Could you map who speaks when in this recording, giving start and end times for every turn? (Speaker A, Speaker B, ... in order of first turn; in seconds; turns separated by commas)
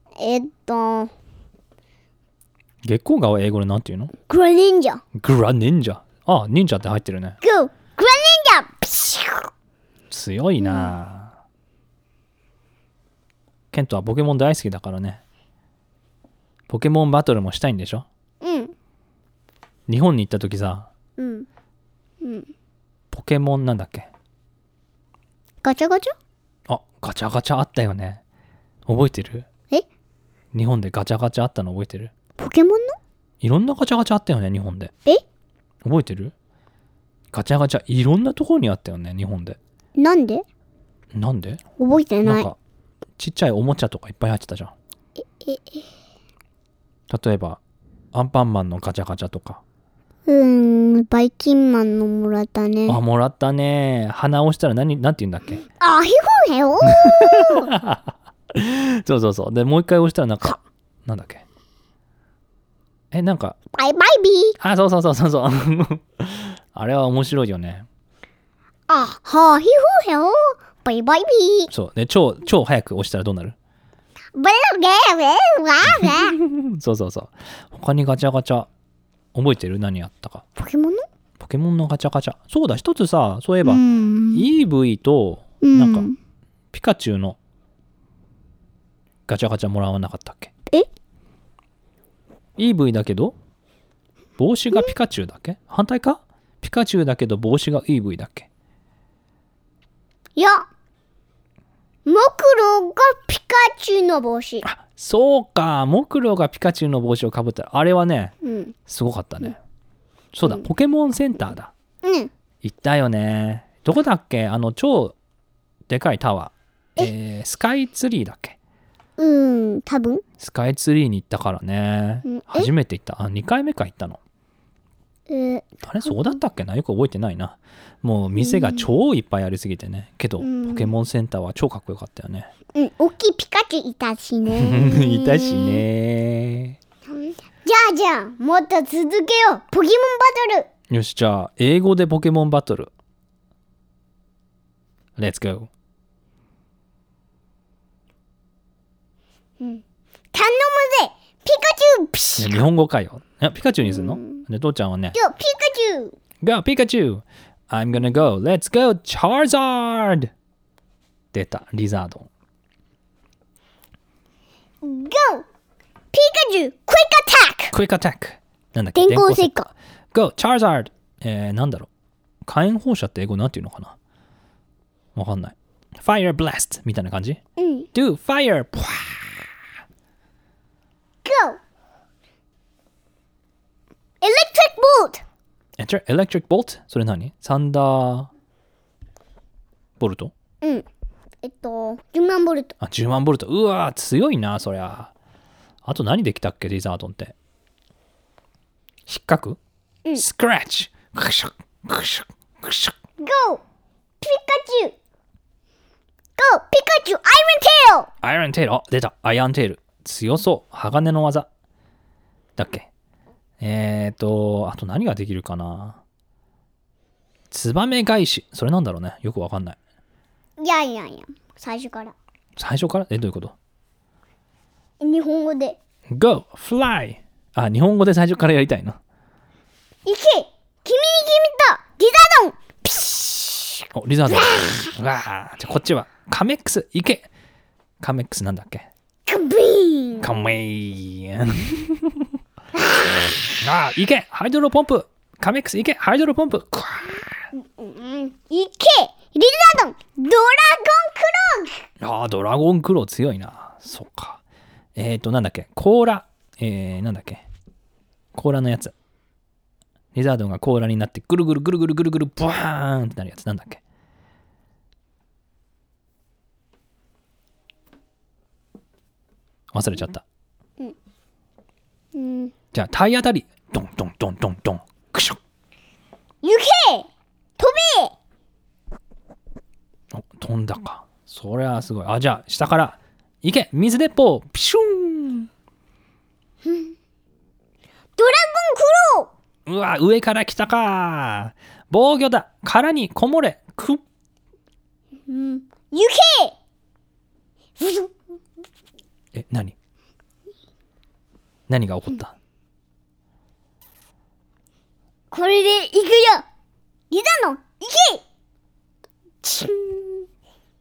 Speaker A: 0.2-1.1, Speaker B: 2.8-4.1, Speaker A: 4.3-5.0, Speaker B: 5.1-7.4, Speaker A: 7.4-9.5, Speaker B: 10.1-11.3, Speaker A: 10.6-10.9, Speaker B: 13.7-15.2, Speaker B: 16.7-18.1, Speaker A: 18.4-18.7, Speaker B: 19.9-20.9, Speaker A: 21.2-21.5, Speaker A: 22.2-22.5, Speaker B: 23.1-24.1, Speaker A: 25.6-26.1, Speaker B: 26.7-28.2, Speaker B: 28.9-29.5, Speaker B: 30.5-32.1, Speaker A: 32.4-33.0, Speaker B: 33.4-34.9, Speaker B: 35.8-36.3, Speaker B: 37.3-39.6, Speaker A: 40.0-40.4, Speaker B: 41.1-41.6, Speaker A: 41.8-42.5, Speaker B: 42.2-42.6, Speaker B: 43.2-44.7, Speaker A: 45.2-45.9, Speaker B: 47.1-47.6, Speaker B: 48.1-49.6, Speaker A: 50.2-53.0, Speaker B: 52.9-55.6, Speaker A: 55.8-57.7, Speaker B: 56.8-61.4, Speaker B: 63.1-63.6, Speaker A: 63.7-64.6, Speaker B: 64.6-67.8, Speaker A: 68.9-71.7, Speaker B: 71.7-73.5, Speaker A: 74.3-76.3, Speaker B: 75.8-78.7, Speaker B: 79.3-80.4, Speaker A: 80.5-81.0, Speaker B: 81.4-83.8, Speaker A: 83.6-84.5, Speaker B: 84.3-86.1, Speaker A: 85.6-86.1, Speaker B: 86.7-87.4, Speaker B: 89.3-90.5, Speaker B: 92.6-93.3, Speaker B: 94.4-98.5, Speaker A: 100.3-100.7, Speaker A: 102.0-104.6, Speaker B: 104.6-108.3, Speaker A: 108.4-108.7, Speaker B: 108.9-109.6, Speaker B: 110.3-111.7, Speaker A: 112.0-112.3, Speaker B: 112.6-115.1, Speaker B: 115.9-118.6, Speaker A: 119.2-120.2, Speaker B: 120.4-124.2, Speaker A: 122.2-122.7, Speaker A: 125.3-126.4, Speaker B: 125.8-132.5, Speaker A: 128.3-128.8, Speaker A: 130.4-130.9, Speaker A: 132.7-135.8, Speaker B: 134.5-136.8, Speaker A: 137.0-140.7, Speaker B: 140.9-142.9, Speaker B: 145.2-145.7, Speaker A: 149.6-152.6, Speaker B: 152.4-155.2, Speaker A: 153.8-154.4, Speaker A: 155.1-156.2, Speaker B: 156.4-160.3, Speaker B: 161.3-162.3, Speaker A: 164.8-165.4, Speaker A: 166.1-167.7, Speaker B: 167.7-169.6, Speaker A: 168.9-169.7, Speaker B: 170.1-171.9, Speaker B: 172.4-173.9, Speaker B: 175.1-177.4, Speaker A: 177.6-177.9, Speaker B: 177.9-179.4, Speaker A: 181.2-181.6, Speaker A: 184.2-185.2, Speaker B: 185.8-188.3, Speaker B: 190.0-190.3, Speaker A: 191.4-192.8, Speaker B: 192.8-195.1, Speaker B: 195.8-197.3, Speaker B: 199.1-199.6, Speaker B: 200.2-202.9, Speaker A: 203.2-203.6, Speaker A: 204.2-204.9, Speaker A: 206.4-208.1, Speaker B: 208.2-211.5, Speaker B: 212.6-212.9, Speaker B: 213.6-216.0, Speaker B: 217.5-219.8, Speaker A: 220.6-222.1, Speaker B: 222.6-223.5, Speaker A: 225.0-225.8, Speaker B: 226.1-229.0, Speaker A: 230.0-234.9, Speaker B: 233.9-237.3, Speaker B: 238.0-238.9, Speaker A: 239.2-240.4, Speaker B: 240.2-242.3, Speaker A: 242.7-243.1, Speaker B: 243.6-247.4, Speaker A: 247.5-251.8, Speaker B: 252.0-254.4, Speaker B: 254.9-257.4, Speaker B: 258.3-258.9, Speaker B: 260.1-263.8, Speaker B: 269.7-270.2, Speaker A: 272.1-272.5, Speaker B: 272.7-275.4, Speaker A: 276.4-277.1, Speaker A: 277.6-278.1, Speaker B: 280.1-285.5, Speaker A: 286.6-286.9, Speaker A: 288.2-289.3, Speaker B: 289.6-294.0, Speaker A: 295.2-296.5, Speaker A: 297.8-298.2, Speaker B: 299.3-299.7, Speaker B: 301.7-302.3, Speaker A: 305.3-306.4, Speaker A: 307.1-308.2, Speaker A: 309.4-310.3